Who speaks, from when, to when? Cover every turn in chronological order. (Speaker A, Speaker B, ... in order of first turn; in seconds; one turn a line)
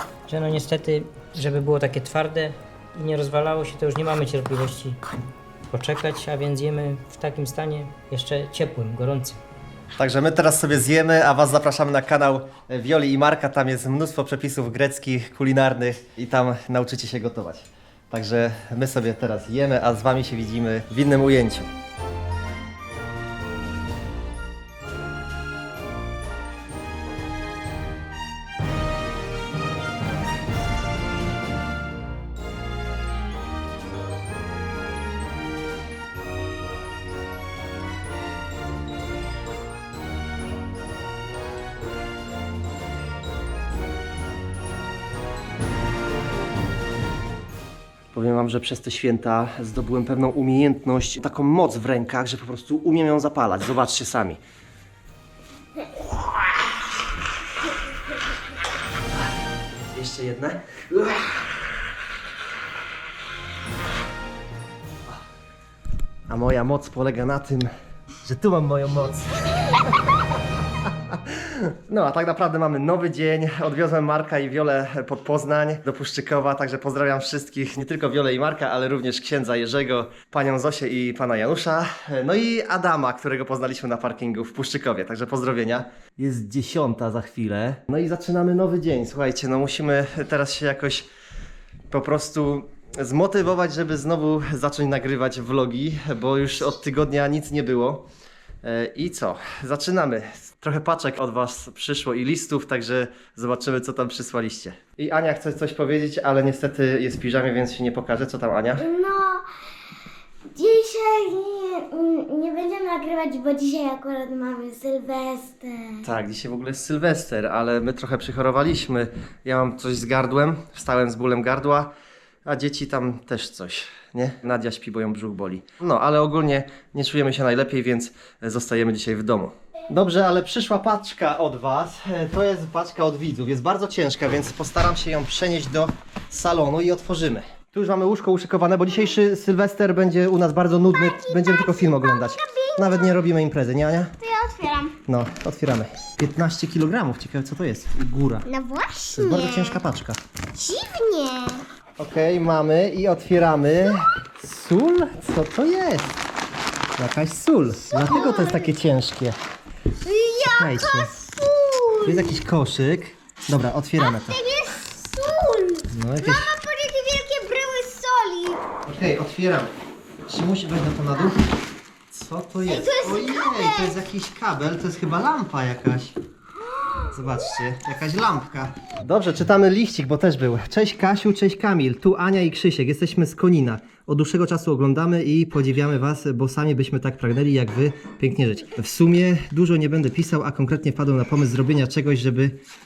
Speaker A: 0.3-5.0
Speaker A: 5.7-9.4
Speaker B: 10.0-21.7
Speaker B: 48.1-54.4
Speaker B: 59.9-61.2
Speaker B: 66.3-67.7
Speaker B: 68.2-69.5
Speaker B: 70.8-91.1
Speaker B: 91.9-98.1
Speaker B: 98.6-108.8
Speaker C: 108.8-109.5
Speaker C: 110.5-116.1
Speaker B: 116.0-121.9
Speaker B: 122.5-144.1
Speaker C: 140.9-143.2
Speaker C: 144.2-145.0
Speaker B: 145.1-148.5
Speaker C: 148.4-149.8
Speaker B: 149.1-150.2
Speaker C: 150.5-151.6
Speaker B: 152.0-156.2
Speaker B: 157.0-159.4
Speaker C: 157.9-158.7
Speaker C: 160.0-162.4
Speaker B: 160.5-161.1
Speaker B: 162.0-164.4
Speaker C: 164.0-168.7
Speaker B: 165.9-166.5
Speaker B: 168.8-169.7
Speaker B: 170.3-171.5
Speaker B: 172.1-176.1
Speaker C: 172.7-174.0
Speaker B: 177.1-192.6